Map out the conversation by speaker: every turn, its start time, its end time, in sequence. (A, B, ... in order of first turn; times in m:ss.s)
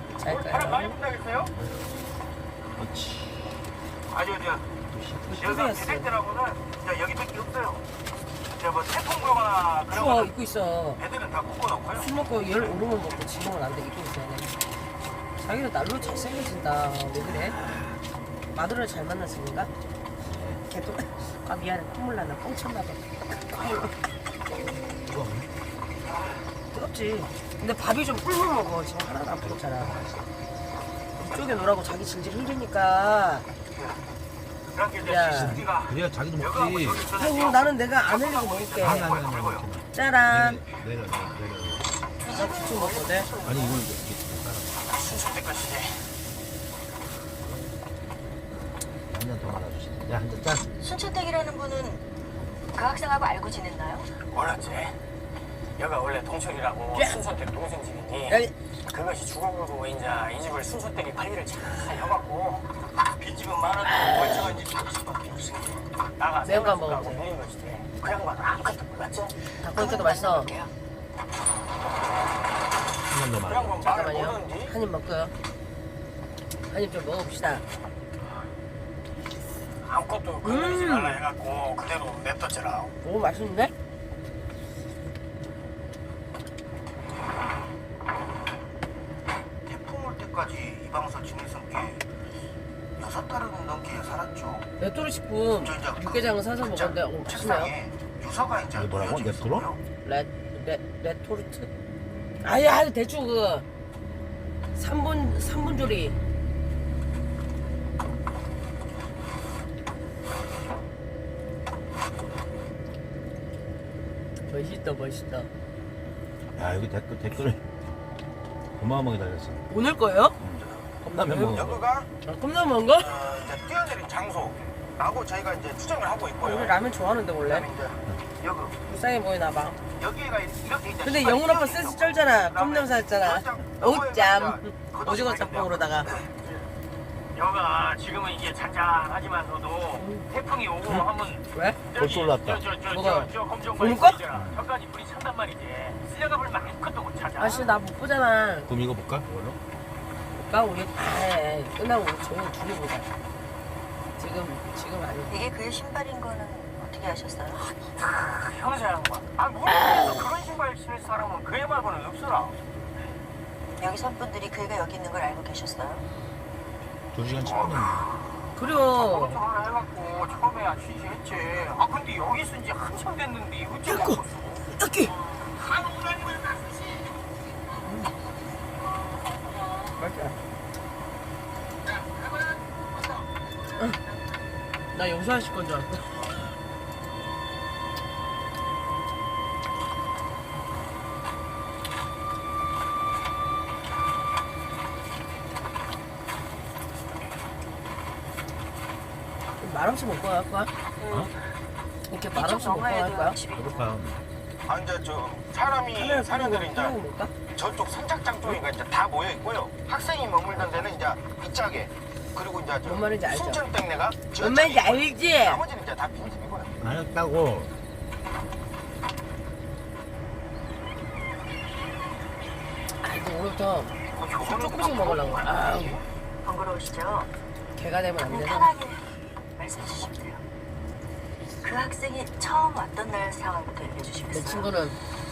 0:00.2-0:01.0 A
0:00.3-0:01.5 B
0:00.6-0:01.0 C
0:02.8-0:03.6 D
0:04.1-0:04.7 B
0:04.9-0:05.3 D
0:05.3-0:06.1 A
0:05.3-0:07.8 B
0:08.6-0:10.3 B
0:09.9-0:11.0 A
0:11.0-0:12.1 B
0:12.0-0:14.5 A
0:15.4-0:17.6 A
0:17.5-0:18.0 D
0:18.5-0:19.7 A
0:20.2-0:20.6 D
0:20.7-0:23.9 A
0:25.0-0:25.5 D
0:26.7-0:30.0 A
0:29.4-0:30.3 D
0:31.2-0:33.5 A
0:33.7-0:34.0 B
0:34.7-0:39.7 B
0:35.0-0:35.6 A
0:35.2-0:37.1 D
0:37.2-0:39.1 A
0:38.8-0:41.8 D
0:39.9-0:40.6 A
0:42.2-0:43.8 E
0:42.3-0:43.3 A
0:43.4-0:44.8 D
0:44.9-0:46.1 C
0:49.1-0:50.7 D
0:50.8-0:52.0 E
0:52.7-0:54.1 E
0:54.3-0:55.0 C
0:55.8-1:02.7 C
0:56.9-0:57.2 A
0:58.3-0:58.5 A
1:03.2-1:05.9 B
1:06.2-1:09.5 C
1:06.4-1:07.2 A
1:09.6-1:10.5 A
1:09.6-1:10.7 E
1:13.1-1:13.9 D
1:13.5-1:14.7 B
1:13.9-1:15.3 A
1:16.7-1:17.6 A
1:19.8-1:22.9 C
1:20.4-1:21.2 A
1:23.0-1:23.7 A
1:29.7-1:32.1 B
1:33.0-1:34.7 B
1:34.8-1:37.7 A
1:35.6-1:39.8 B
1:38.8-1:39.7 D
1:40.0-1:41.7 A
1:42.4-1:43.7 A
1:44.8-1:46.2 A
1:54.5-1:55.5 A
1:56.5-1:57.6 D
1:58.8-1:59.7 D
1:59.7-2:00.4 A
2:00.4-2:01.8 D
2:01.0-2:01.7 A
2:01.4-2:02.1 B
2:02.2-2:03.1 A
2:03.0-2:06.8 B
2:06.4-2:07.7 A
2:07.4-2:08.8 B
2:08.9-2:09.8 A
2:10.0-2:16.3 B
2:11.0-2:16.1 A
2:17.3-2:27.8 C
2:20.0-2:20.2 A
2:21.5-2:21.8 A
2:22.0-2:22.7 D
2:22.9-2:24.2 A
2:24.3-2:24.6 D
2:27.4-2:28.7 A
2:28.7-2:29.6 D
2:30.5-2:33.1 A
2:34.2-2:35.5 A
2:35.3-2:37.7 E
2:37.6-2:42.6 C
2:43.8-2:46.0 E
2:47.1-2:48.0 D
2:47.4-2:48.0 B
2:48.6-2:49.4 A
2:48.9-2:57.1 C
2:53.8-2:55.1 A
3:00.0-3:00.4 A
3:01.9-3:03.3 C
3:04.9-3:06.2 A
3:19.6-3:20.7 A
3:22.1-3:23.4 A
3:22.3-3:23.9 E
3:23.6-3:24.2 D
3:24.7-3:27.0 B
3:25.9-3:27.3 A
3:27.6-3:36.8 B
3:30.5-3:30.9 D
3:32.8-3:33.6 A
3:34.4-3:35.6 A
3:36.8-3:37.7 D
3:43.0-3:46.0 A
3:44.1-3:46.0 C
3:46.4-3:47.3 E
3:47.8-3:48.8 A
3:48.3-3:50.4 E
3:51.6-3:54.7 E
3:54.3-3:55.0 A